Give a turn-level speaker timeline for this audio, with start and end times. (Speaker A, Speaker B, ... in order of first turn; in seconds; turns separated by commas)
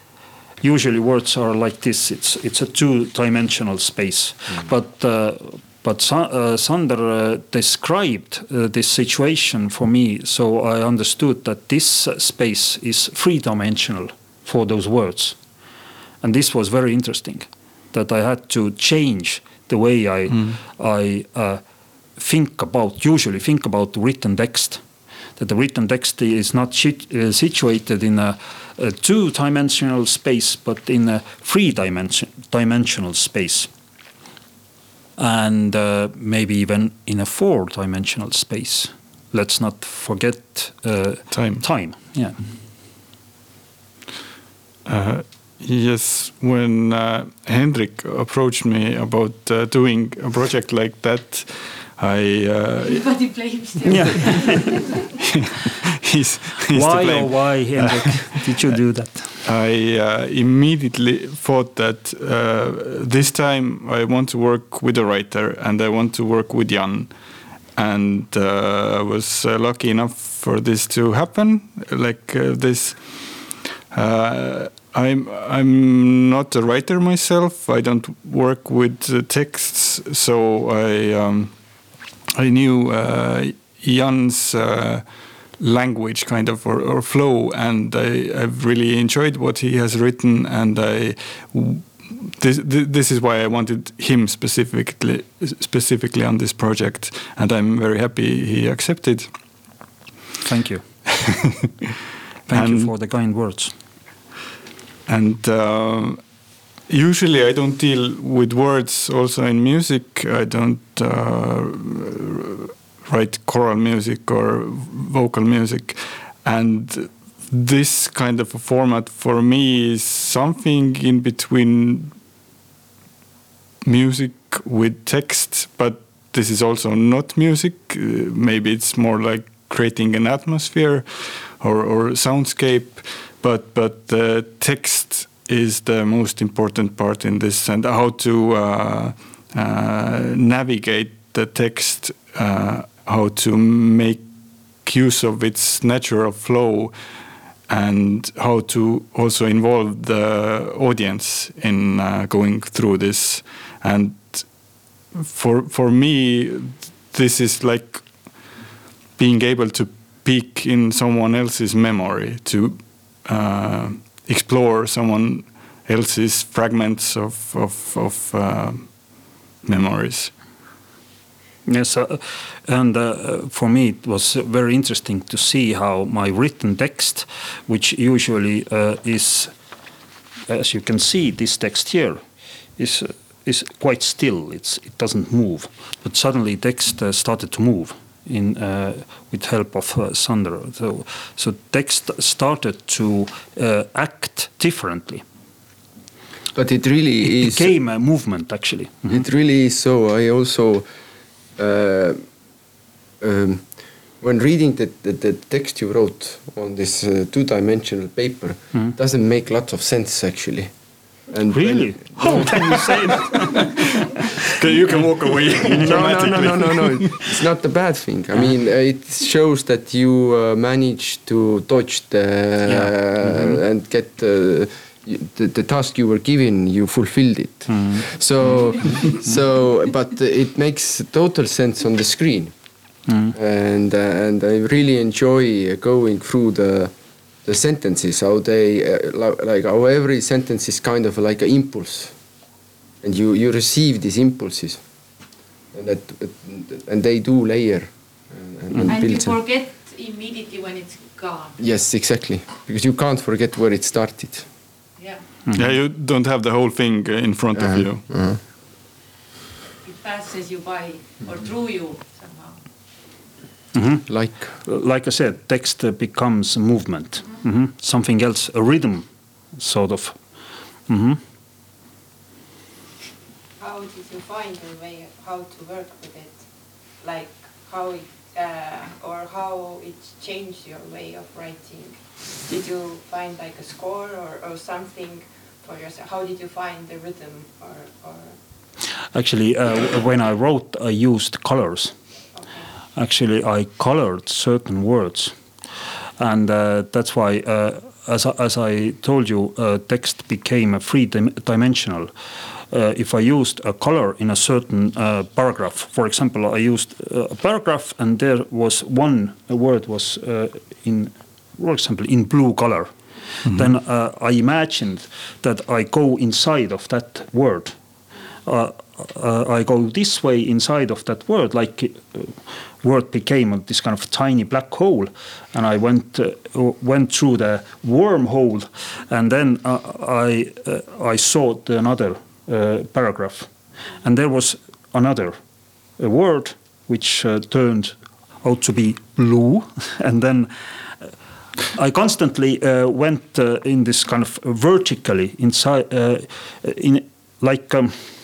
Speaker A: 0.6-15.4, Speaker A: 16.2-21.6, Speaker B: 20.3-20.6, Speaker A: 22.2-24.8, Speaker A: 25.4-33.7, Speaker A: 35.2-42.5, Speaker B: 41.3-41.6, Speaker B: 44.9-53.1, Speaker C: 52.8-55.0, Speaker A: 53.8-54.8, Speaker B: 54.0-54.4, Speaker B: 55.2-58.7, Speaker A: 56.7-59.4, Speaker B: 59.4-67.1, Speaker B: 67.7-81.5, Speaker B: 82.3-85.0, Speaker B: 85.6-99.3, Speaker A: 100.4-101.1, Speaker A: 102.5-103.7, Speaker B: 102.5-102.9, Speaker B: 105.1-106.2, Speaker B: 106.9-122.1, Speaker B: 123.8-144.2, Speaker B: 144.8-146.9, Speaker B: 147.7-158.6, Speaker B: 159.2-170.3, Speaker A: 171.7-179.5, Speaker A: 180.5-182.2, Speaker A: 182.8-195.2, Speaker D: 196.5-197.7, Speaker A: 197.2-199.2, Speaker D: 199.1-200.8, Speaker D: 201.6-202.2, Speaker D: 203.2-203.6, Speaker D: 204.2-210.7, Speaker D: 211.3-213.7, Speaker A: 211.5-213.9, Speaker B: 212.3-212.7, Speaker B: 214.4-217.3, Speaker A: 215.6-216.7, Speaker D: 215.7-232.5, Speaker A: 222.6-223.6, Speaker A: 227.7-228.0, Speaker A: 233.1-233.3, Speaker D: 233.3-236.9, Speaker D: 237.4-242.1, Speaker D: 243.0-244.8, Speaker D: 245.7-249.4, Speaker C: 248.9-251.6, Speaker D: 251.6-254.5, Speaker C: 255.0-255.2, Speaker A: 255.4-255.8, Speaker B: 255.5-258.1, Speaker D: 257.6-258.4, Speaker C: 259.8-262.6, Speaker A: 263.7-270.2, Speaker D: 264.1-264.6, Speaker A: 270.9-271.2, Speaker E: 273.6-288.4, Speaker A: 289.1-291.9, Speaker E: 292.3-292.7, Speaker A: 292.9-295.3, Speaker A: 296.2-302.1, Speaker A: 302.7-317.8, Speaker A: 318.4-335.4, Speaker A: 336.0-340.5, Speaker A: 341.7-348.0